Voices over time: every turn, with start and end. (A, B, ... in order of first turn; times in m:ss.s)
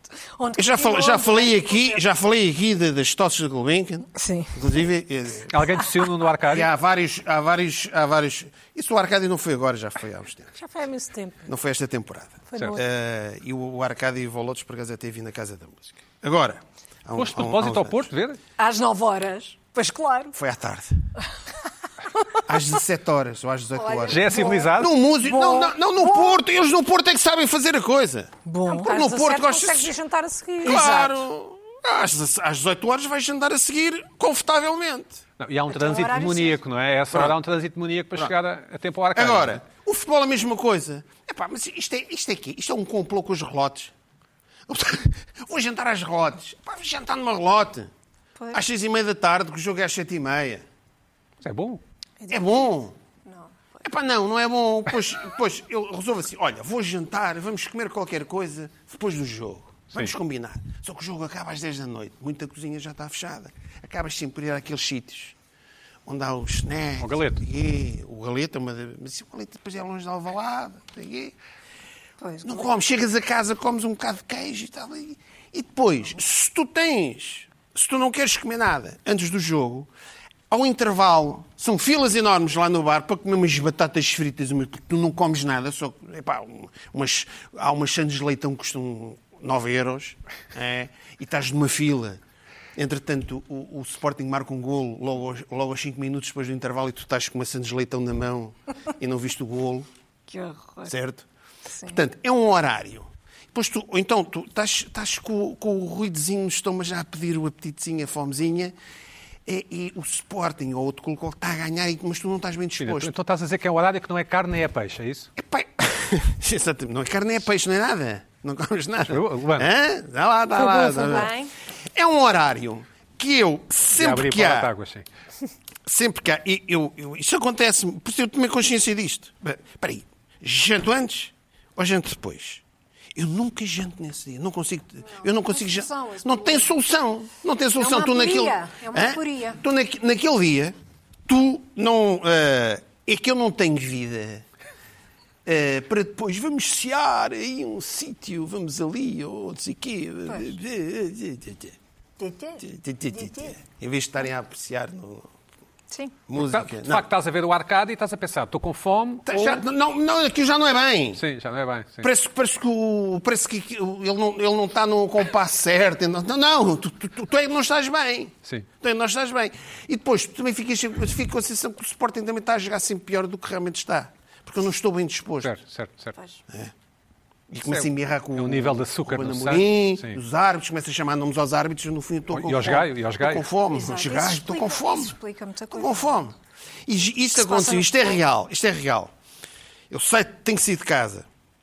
0:00.4-0:02.0 A
0:00.6-0:05.5 B
0:04.1-0:04.5 A
0:05.5-0:06.7 C
0:06.5-0:10.5 B
0:10.6-0:11.5 D
0:11.5-0:18.1 B
0:12.5-0:12.8 D
0:17.2-0:18.4 C
0:18.6-0:20.4 A
0:20.4-0:20.9 B
0:22.5-0:29.9 B
0:23.8-0:26.4 A
0:24.1-0:24.9 C
0:28.4-0:29.0 A
0:28.7-0:30.9 D
0:30.6-0:31.2 A
0:30.6-0:35.2 B
0:35.4-0:39.6 C
0:35.7-0:36.6 A
0:39.2-0:43.9 B
0:44.7-0:47.9 B
0:48.5-0:50.6 B
0:51.4-0:51.8 C
0:52.3-0:53.0 B
0:53.3-0:53.8 A
0:53.8-1:05.4 B
1:06.1-1:11.3 B
1:07.0-1:07.4 C
1:12.2-1:12.7 A
1:12.4-1:19.9 B
1:20.5-1:32.2 B
1:32.8-1:39.9 B
1:40.3-1:40.9 A
1:40.9-1:41.2 B
1:41.9-1:48.7 B
1:49.5-1:53.1 B
1:52.8-1:55.3 C
1:55.4-2:01.4 B
1:59.1-1:59.7 C
2:00.6-2:01.5 A
2:01.9-2:04.7 B
2:03.9-2:05.1 C
2:05.9-2:12.6 B
2:13.2-2:20.8 B
2:15.1-2:16.7 A
2:17.8-2:19.6 A
2:21.3-2:24.4 B
2:25.5-2:31.8 B
2:32.2-2:32.6 A
2:32.6-2:35.3 B
2:35.9-2:36.2 A
2:36.3-2:37.1 B
2:36.4-2:39.6 C
2:39.3-2:41.2 B
2:41.2-2:42.1 C
2:42.0-2:55.5 B
2:55.4-2:56.2 C
2:57.5-3:05.2 B
2:57.6-3:00.2 C
3:02.3-3:03.5 C
3:03.7-3:06.1 A
3:05.7-3:06.4 B
3:06.9-3:09.1 B
3:07.4-3:08.2 A
3:09.9-3:11.3 B